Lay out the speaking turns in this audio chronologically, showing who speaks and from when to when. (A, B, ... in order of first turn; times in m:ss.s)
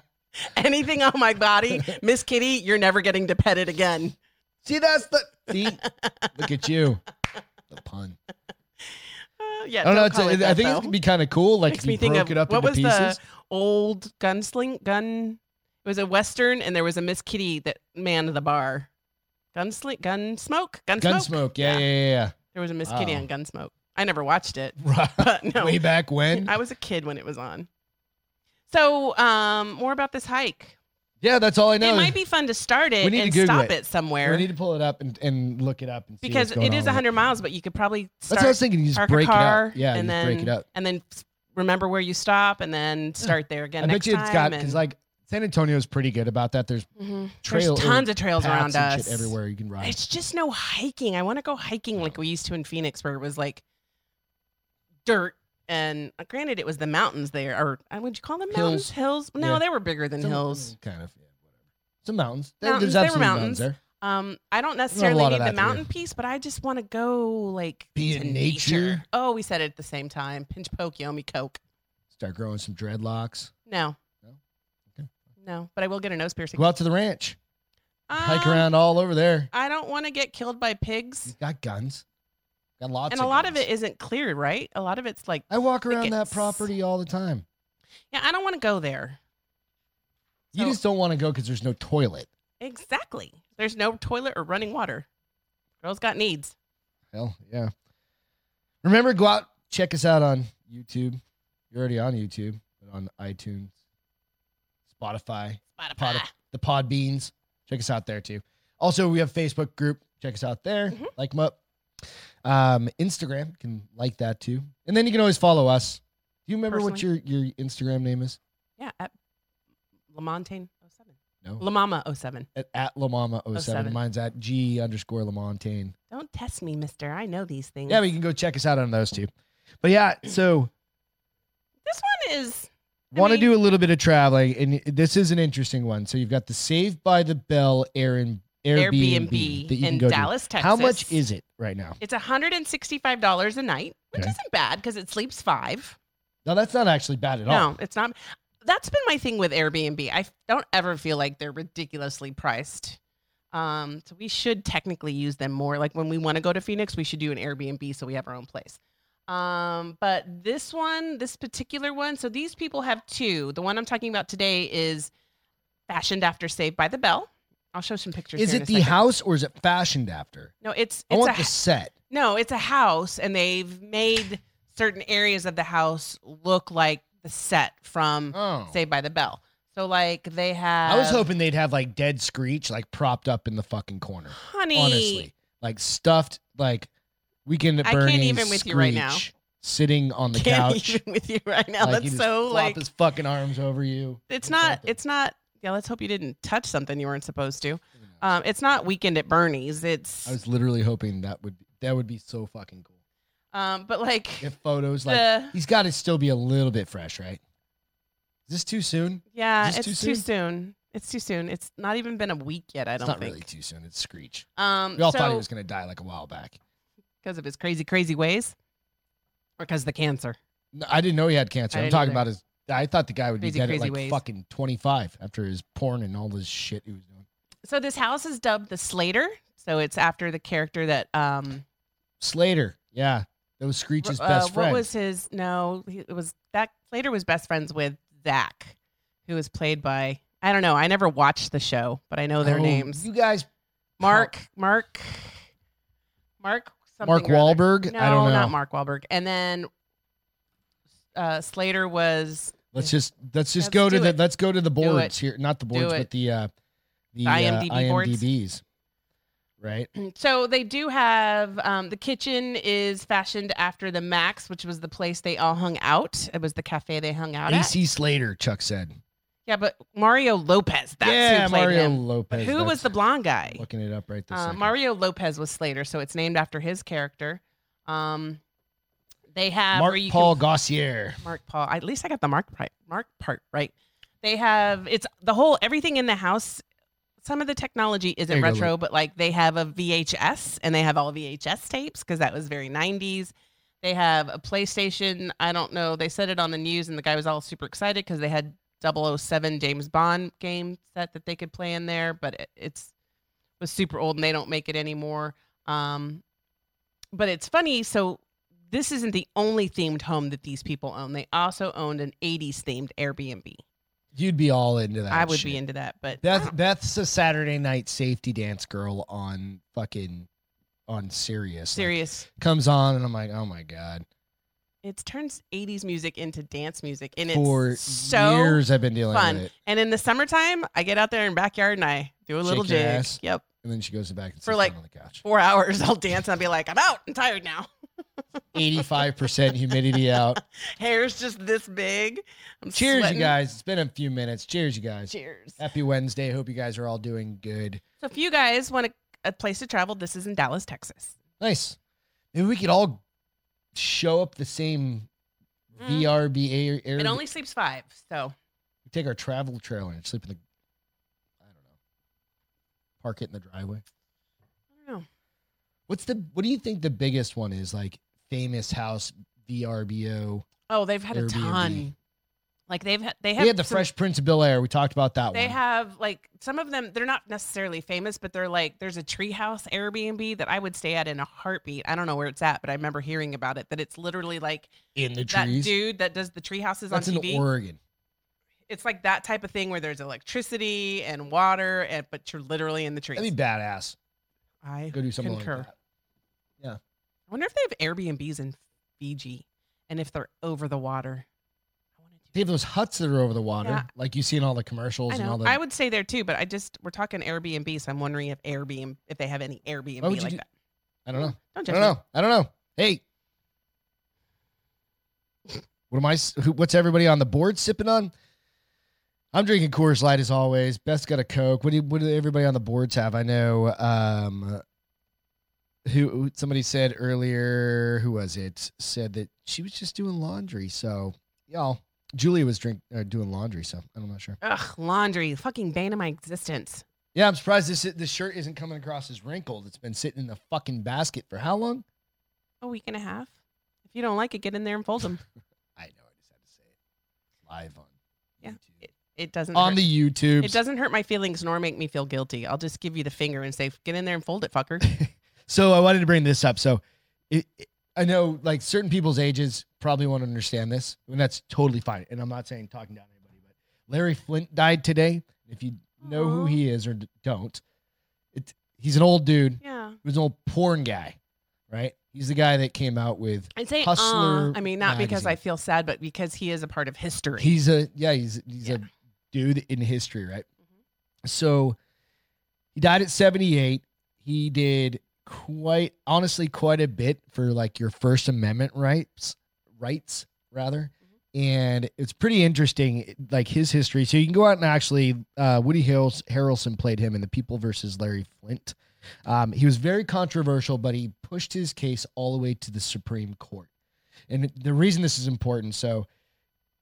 0:00.4-0:04.2 A
0:04.6-0:05.8 B
0:05.6-0:06.3 A
0:06.4-0:07.0 B
0:07.7-0:08.2 B
0:09.4-0:11.0 A
0:09.8-0:13.2 B
0:11.7-0:18.9 A
0:19.5-0:21.9 A
0:21.0-0:23.3 B
0:22.5-0:27.7 A
0:24.8-0:26.5 B
0:28.7-0:30.8 A
0:31.2-0:32.2 B
0:31.8-0:34.5 A
0:33.0-0:37.2 B
0:36.2-0:44.8 A
0:38.3-0:40.6 B
0:43.2-0:46.9 B
0:47.0-0:53.6 A
0:47.4-0:50.0 B
0:55.0-1:00.7 A
0:58.5-0:59.6 B
1:00.2-1:01.3 B
1:02.0-1:03.8 B
1:02.6-1:11.6 A
1:04.9-1:05.9 B
1:08.0-1:09.0 B
1:12.1-1:13.5 B
1:13.7-1:14.0 A
1:15.4-1:16.7 A
1:16.6-1:17.4 B
1:18.1-1:18.7 A
1:18.1-1:19.5 B
1:19.5-1:21.3 A
1:21.3-1:22.0 B
1:22.8-1:23.6 B
1:23.1-1:26.7 A
1:25.5-1:27.4 B
1:28.1-1:29.2 A
1:30.5-1:32.3 B
1:32.6-1:35.1 A
1:35.8-1:36.6 A
1:37.1-1:37.7 B
1:38.8-1:41.2 B
1:41.7-1:43.7 B
1:44.9-1:51.6 B
1:45.8-1:46.3 A
1:52.4-1:58.4 B
1:56.7-1:57.0 A
1:58.8-1:59.1 A
2:00.1-2:02.5 A
2:02.6-2:06.0 B
2:03.5-2:04.0 A
2:06.1-2:08.0 A
2:07.9-2:09.3 B
2:09.8-2:10.7 B
2:11.9-2:13.5 A
2:13.1-2:22.0 B
2:18.8-2:21.2 A
2:22.0-2:26.0 A
2:26.4-2:27.7 B
2:27.5-2:33.0 A
2:33.5-2:45.1 A
2:45.9-2:49.0 A
2:48.4-2:50.5 B
2:50.6-2:51.6 A
2:51.1-2:51.9 B
2:52.1-3:01.3 A
2:58.3-2:58.8 B
3:00.9-3:06.9 B
3:04.3-3:05.3 A
3:07.5-3:11.0 B
3:07.8-3:09.2 A
3:10.3-3:12.8 A
3:11.8-3:15.0 B
3:14.3-3:20.4 A
3:20.3-3:22.9 B
3:23.5-3:24.5 A
3:24.4-3:27.4 B
3:25.1-3:25.6 A
3:28.5-3:30.2 B
3:29.3-3:33.5 A
3:33.0-3:36.6 B
3:34.6-3:35.4 A
3:37.2-3:38.6 A
3:39.6-3:40.4 A
3:40.7-3:47.2 B
3:41.7-3:42.2 A
3:43.4-3:44.2 A
3:47.7-3:51.6 A
3:52.2-3:54.9 B
3:54.0-4:03.1 A
4:02.4-4:03.5 B
4:04.0-4:05.4 A
4:04.0-4:04.3 B
4:06.4-4:09.7 A
4:07.0-4:08.6 B
4:11.2-4:12.9 A
4:12.7-4:16.5 B
4:13.6-4:14.2 A
4:14.8-4:15.1 A
4:15.7-4:16.1 A
4:17.1-4:18.6 B
4:17.2-4:18.2 A
4:19.6-4:19.9 B
4:20.0-4:27.7 A
4:27.5-4:28.9 B
4:29.5-4:33.6 A
4:31.0-4:32.9 B
4:33.5-4:34.7 B
4:34.3-4:38.4 A
4:39.3-4:40.4 A
4:39.7-4:41.2 B
4:41.2-4:46.6 A
4:47.2-5:02.9 A
4:48.3-4:48.7 B
5:03.6-5:06.2 A
5:07.1-5:13.6 A
5:14.2-5:15.6 B
5:15.1-5:16.5 A
5:16.2-5:20.3 B
5:20.9-5:24.0 B
5:21.7-5:22.3 A
5:24.8-5:33.4 A
5:27.3-5:29.5 B
5:32.4-5:35.2 B
5:34.5-5:37.7 A
5:38.5-5:40.4 B
5:39.7-5:43.3 A
5:42.7-5:47.8 B
5:45.1-5:45.6 A
5:48.0-5:51.2 A
5:51.4-5:51.8 B
5:52.3-5:53.0 B
5:53.7-5:55.1 B
5:55.7-5:57.2 B
5:55.8-5:56.1 A
5:57.0-5:58.3 A
5:58.9-6:00.4 B
6:03.0-6:03.8 B
6:05.9-6:10.5 B
6:10.7-6:11.9 A
6:11.1-6:11.9 B
6:12.7-6:13.9 A
6:13.4-6:15.6 B
6:15.3-6:24.7 A
6:25.0-6:25.7 B
6:25.3-6:27.4 A
6:26.9-6:27.8 B
6:28.7-6:33.3 A
6:33.2-6:34.0 B
6:34.6-6:35.7 A
6:34.9-6:35.7 B
6:37.3-6:41.3 A
6:42.3-6:45.6 B
6:45.1-6:50.5 A
6:50.0-6:50.4 B
6:51.1-6:53.0 B
6:51.1-6:52.0 A
6:55.9-6:58.1 B
6:59.3-7:04.6 B
7:05.9-7:14.4 B
7:14.4-7:16.8 A
7:17.1-7:21.8 B
7:22.6-7:23.3 A
7:23.9-7:25.2 A
7:25.8-7:26.7 B
7:27.5-7:28.8 B
7:28.4-7:29.8 A
7:29.5-7:30.6 B
7:30.4-7:34.9 A
7:34.8-7:47.6 B
7:46.0-7:46.6 A
7:48.3-7:51.2 B
7:49.6-7:50.0 A
7:51.7-7:55.4 B
7:53.6-7:57.6 A
7:57.4-8:00.5 B
8:01.2-8:01.8 B
8:02.8-8:23.7 B
8:24.3-8:26.1 B